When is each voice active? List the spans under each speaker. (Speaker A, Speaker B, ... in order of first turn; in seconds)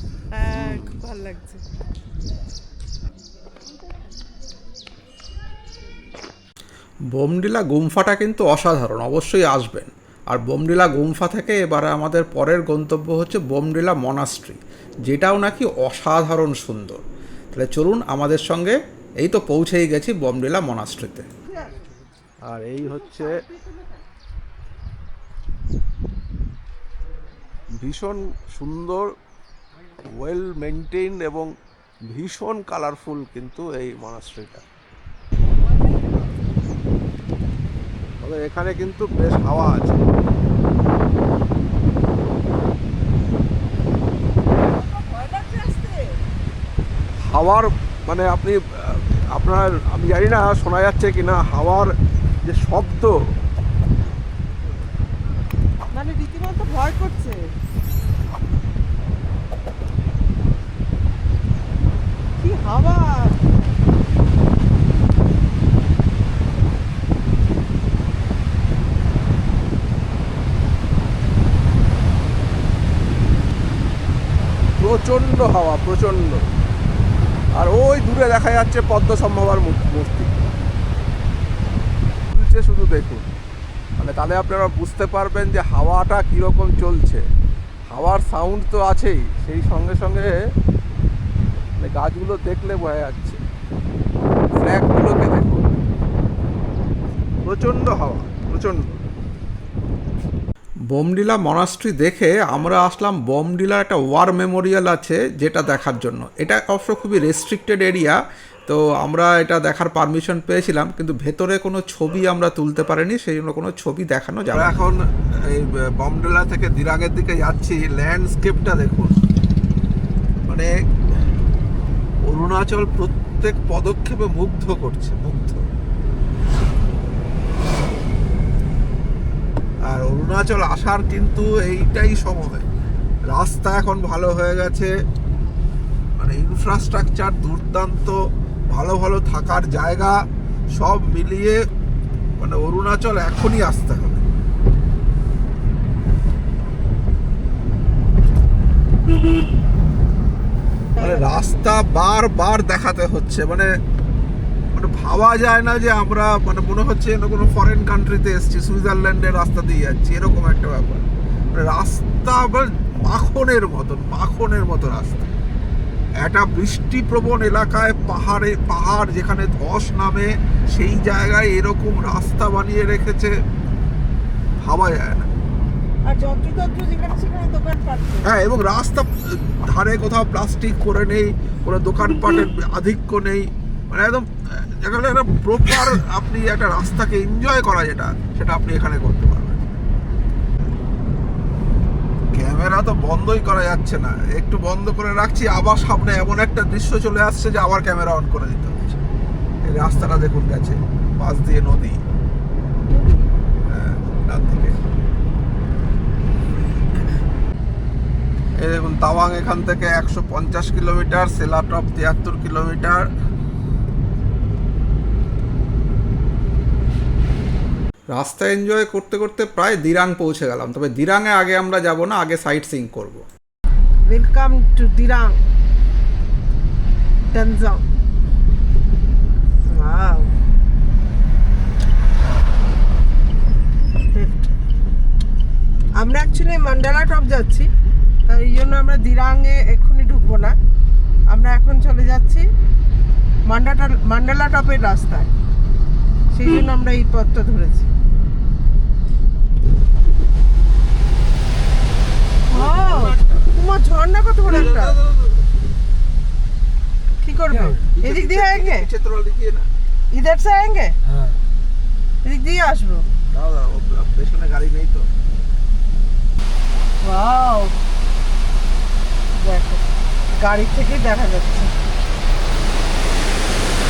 Speaker A: 0.3-1.6, 22.8-24.0, 35.7-36.3, 44.6-46.2, 55.9-57.4, 62.4-63.4, 150.9-151.6, 176.0-178.3, 202.9-203.2, 224.1-225.3, 227.3-227.8, 229.6-230.3, 234.1-234.5, 236.0-237.7, 238.3-240.6, 241.3-242.4, 243.5-245.3, 246.3-247.9, 252.5-255.0, 257.2-258.9, 260.1-260.9, 262.2-263.1, 267.0-267.7, 269.3-269.8, 270.4-271.7
Speaker B: 7.1-17.0, 17.5-21.3, 100.9-114.8, 218.1-223.2
Speaker C: 22.5-23.3, 27.8-29.1, 30.2-31.5, 32.1-34.6, 38.2-40.0, 47.2-53.1, 74.8-76.4, 77.5-80.3, 82.3-83.3, 84.0-87.2, 87.9-90.3, 91.8-93.4, 94.5-95.7, 97.4-98.8, 114.5-119.1, 122.2-125.6, 129.9-132.6, 133.3-134.9, 136.2-138.2, 138.7-140.2, 140.7-141.6, 142.4-144.2, 151.0-153.7, 154.7-165.3, 166.2-173.3, 174.6-175.3, 178.2-189.6, 192.3-199.0, 199.6-202.0, 203.6-204.8, 208.6-213.1, 252.5-253.4, 254.4-255.2, 257.9-259.7, 263.3-265.1